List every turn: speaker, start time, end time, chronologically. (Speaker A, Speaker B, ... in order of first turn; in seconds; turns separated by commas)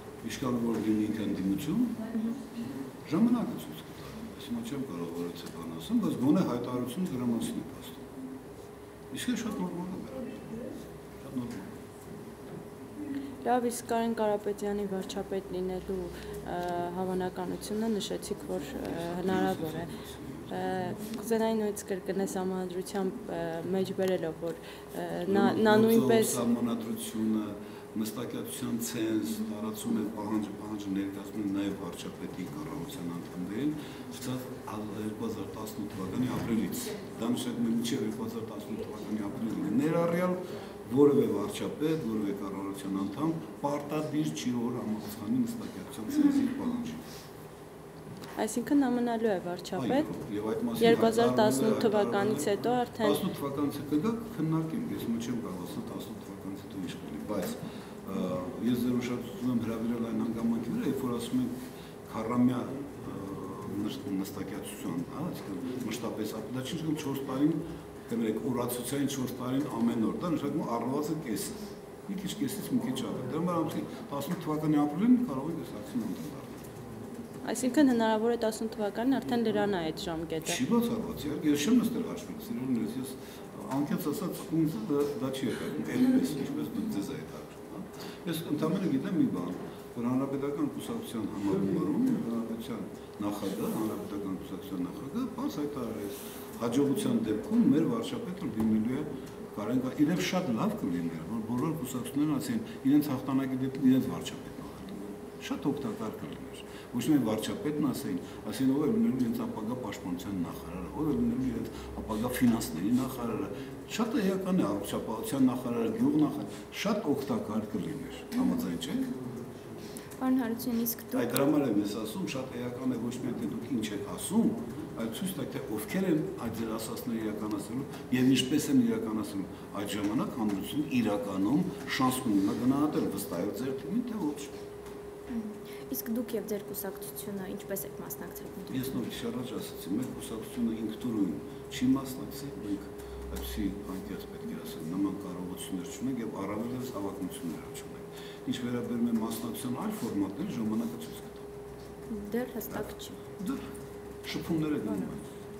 Speaker A: 0.2-2.0, Speaker B: 2.1-2.4, Speaker A: 3.0-8.1, Speaker A: 9.1-11.7, Speaker C: 13.4-19.9, Speaker A: 18.9-20.5, Speaker C: 20.5-26.4, Speaker A: 25.3-47.0, Speaker C: 48.4-50.1, Speaker A: 49.7-61.5, Speaker C: 50.8-53.2, Speaker A: 62.0-76.7, Speaker C: 77.4-80.6, Speaker A: 80.4-119.1, Speaker B: 120.2-121.3, Speaker A: 121.1-134.5, Speaker B: 135.3-139.1, Speaker A: 138.7-151.5, Speaker B: 152.1-153.2, Speaker A: 152.7-153.6, Speaker A: 154.2-155.2